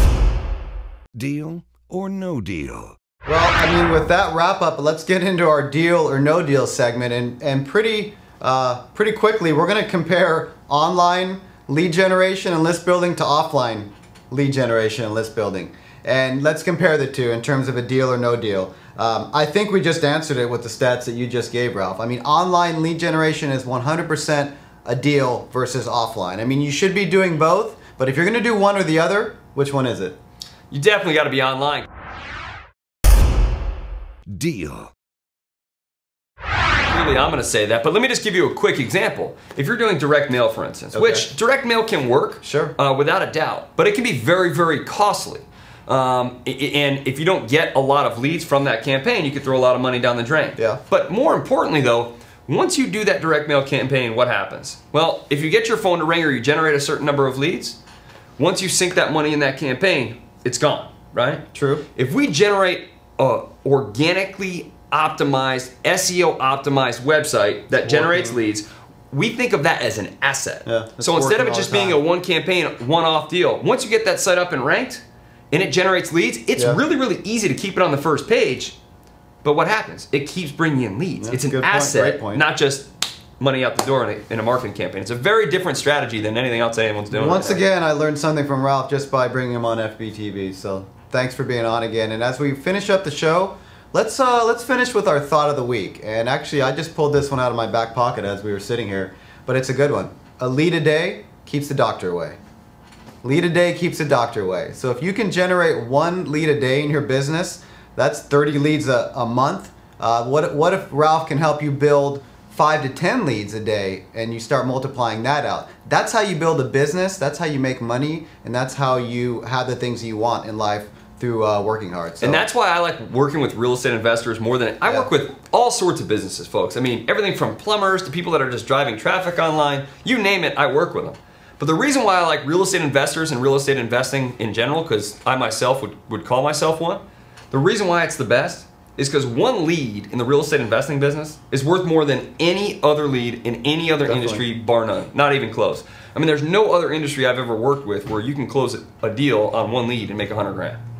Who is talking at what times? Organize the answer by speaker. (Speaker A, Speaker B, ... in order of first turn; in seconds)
Speaker A: 1.1-3.0, 34.3-34.9
Speaker B: 3.2-30.2, 40.9-41.3, 42.4-42.7, 61.5-61.9, 67.8-68.4, 70.7-72.0, 81.2-82.4, 87.1-102.4, 103.2-122.4, 144.0-144.4
Speaker C: 30.7-31.9, 36.9-57.8, 58.4-78.8, 79.4-87.6, 122.2-150.8